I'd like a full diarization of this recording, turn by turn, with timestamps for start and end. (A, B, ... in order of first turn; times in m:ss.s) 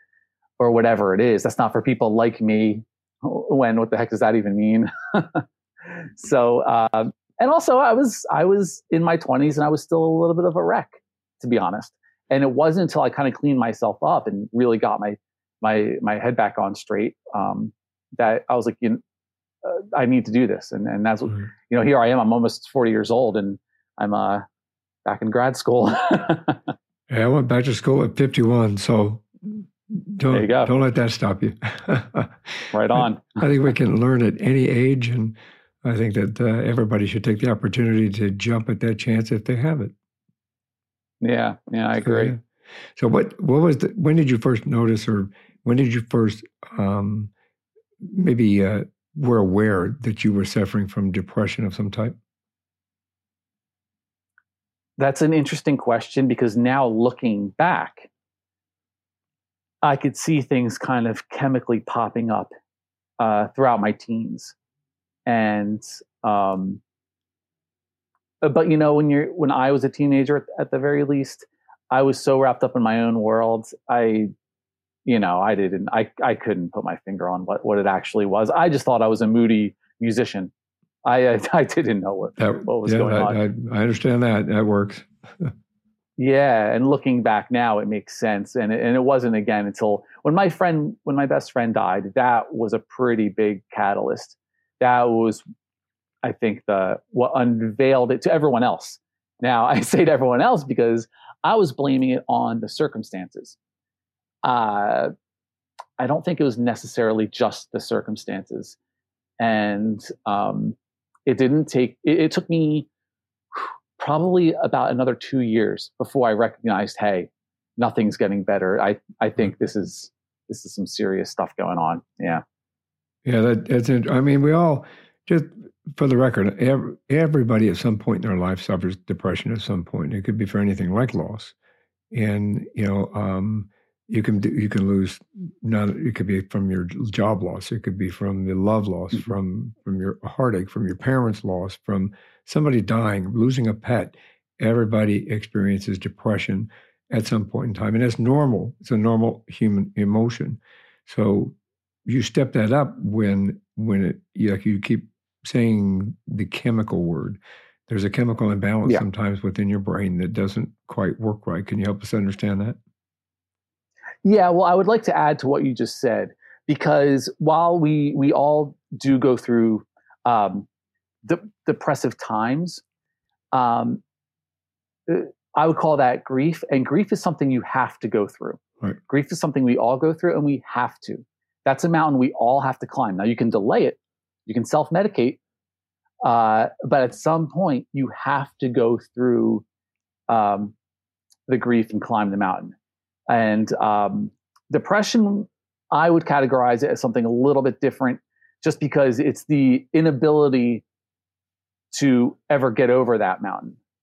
0:00.6-0:19.0 A
0:19.6-0:24.4 A
0:25.0-0:26.7 A
0:27.1-0:39.9 B
0:30.3-0:30.7 A
0:32.7-0:33.4 A
0:41.2-0:42.3 A
0:42.0-0:42.4 B
0:43.0-0:47.3 B
0:48.0-0:52.2 B
0:55.0-0:58.1 A
0:59.8-1:02.5 A
1:03.2-1:04.5 A
1:05.2-1:06.8 A
1:08.4-1:14.3 A
1:15.0-1:20.5 A
1:21.0-1:23.4 A
1:22.4-1:25.5 B
1:26.2-1:35.4 A
1:36.2-1:43.6 A
1:44.4-1:45.1 A
1:46.0-1:48.8 A
1:49.4-1:52.9 A
1:53.5-2:02.4 A
2:03.2-2:11.5 B
2:12.1-2:31.5 B
2:32.0-2:42.8 B
2:44.2-2:50.7 A
2:51.2-2:52.8 A
2:53.5-2:54.0 A
2:55.1-3:05.4 A
3:06.2-3:09.6 A
3:10.3-3:10.7 A
3:11.5-3:12.7 A
3:13.3-3:20.8 A
3:21.9-3:23.8 A